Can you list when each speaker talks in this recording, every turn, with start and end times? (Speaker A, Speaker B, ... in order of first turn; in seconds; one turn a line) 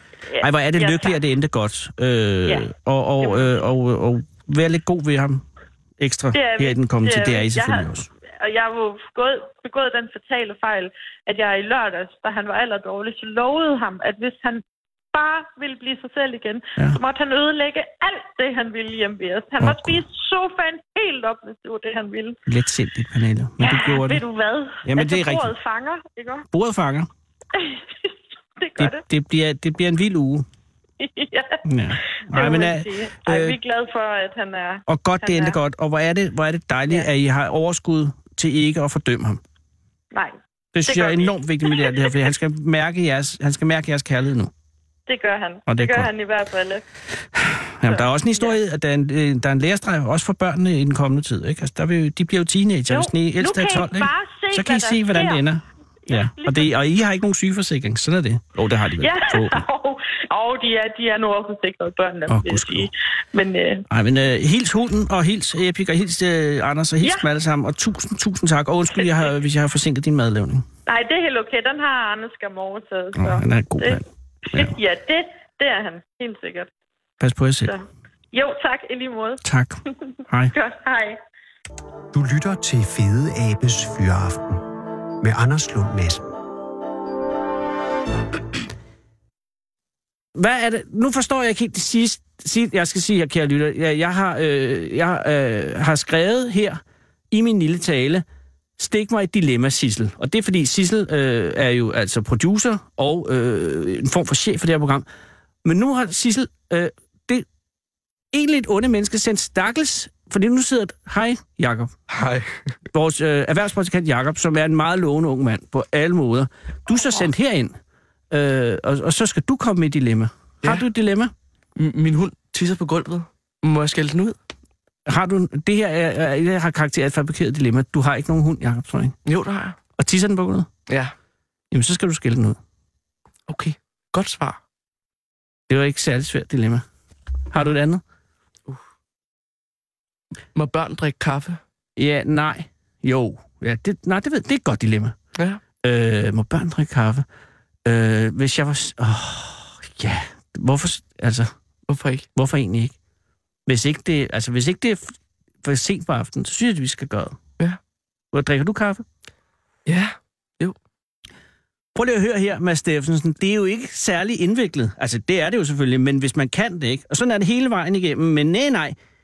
Speaker A: 0.3-1.2
Speaker B: 0.4-5.4
Speaker A: 3.2-3.6
Speaker B: 6.0-8.1
Speaker A: 6.3-22.4
Speaker B: 19.6-20.0
Speaker B: 22.5-24.2
Speaker A: 23.6-26.4
Speaker B: 24.8-25.5
Speaker B: 26.5-27.1
Speaker A: 27.5-29.0
Speaker B: 28.8-30.4
Speaker A: 31.0-31.6
Speaker B: 31.6-33.6
Speaker A: 32.3-35.6
Speaker B: 34.9-39.4
Speaker A: 40.1-42.1
Speaker B: 40.7-44.5
Speaker A: 45.1-46.8
Speaker B: 45.7-46.1
Speaker B: 47.3-59.6
Speaker A: 47.9-48.6
Speaker A: 52.9-55.4
Speaker A: 56.1-56.7
Speaker A: 59.0-63.9
Speaker B: 62.3-62.9
Speaker B: 63.9-70.7
Speaker A: 70.9-76.7
Speaker B: 73.2-74.7
Speaker B: 77.2-77.7
Speaker A: 77.6-79.4
Speaker B: 79.4-80.5
Speaker A: 80.5-81.2
Speaker C: 82.1-84.6
Speaker C: 85.2-86.3
Speaker B: 90.3-98.2
Speaker B: 98.8-105.0
Speaker B: 105.6-107.5
Speaker B: 108.3-111.9
Speaker D: 112.1-112.7
Speaker B: 112.9-117.7
Speaker B: 118.3-121.3
Speaker D: 121.8-124.4
Speaker B: 125.0-129.2
Speaker D: 129.2-129.8
Speaker B: 129.9-130.7
Speaker D: 130.9-131.1
Speaker B: 131.7-132.6
Speaker D: 133.5-134.6
Speaker B: 135.7-136.8
Speaker B: 137.5-138.0
Speaker D: 140.5-141.6
Speaker B: 141.9-145.2
Speaker D: 145.3-145.6
Speaker B: 145.8-147.2
Speaker B: 147.8-151.5
Speaker D: 151.9-152.3
Speaker B: 152.3-152.9
Speaker B: 153.7-157.4
Speaker B: 158.3-159.0
Speaker D: 159.8-160.8
Speaker B: 161.9-168.9